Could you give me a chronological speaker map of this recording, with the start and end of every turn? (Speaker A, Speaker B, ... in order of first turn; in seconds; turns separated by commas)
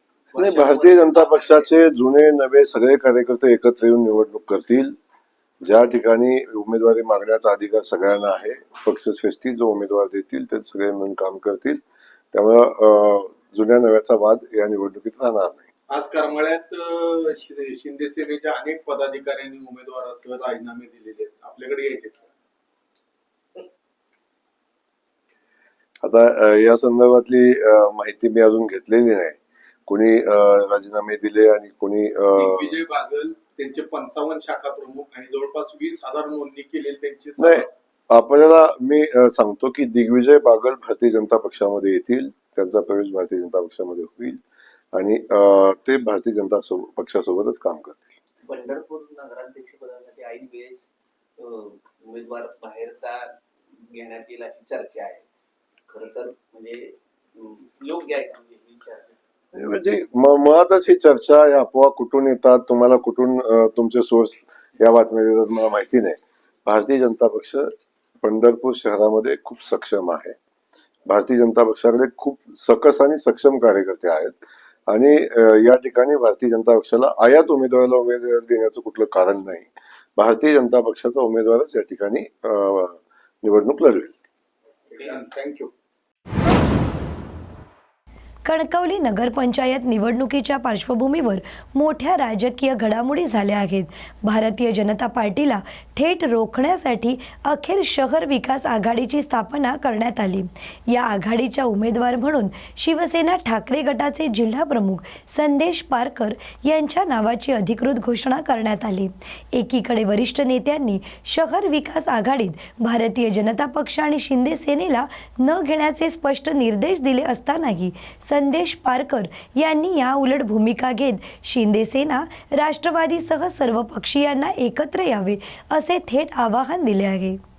Speaker A: 0.3-1.8, Speaker B: 0.4-5.0, Speaker B: 5.6-11.8, Speaker B: 12.3-15.7, Speaker C: 15.9-22.2, Speaker B: 26.0-32.8, Speaker C: 32.4-37.7, Speaker B: 37.4-44.4, Speaker B: 44.9-48.2, Speaker A: 48.5-50.9, Speaker A: 51.4-53.4, Speaker A: 53.9-55.2, Speaker A: 55.9-59.2, Speaker B: 59.5-67.7, Speaker B: 68.2-70.4, Speaker B: 71.1-84.1, Speaker C: 85.0-85.7, Speaker D: 88.5-127.4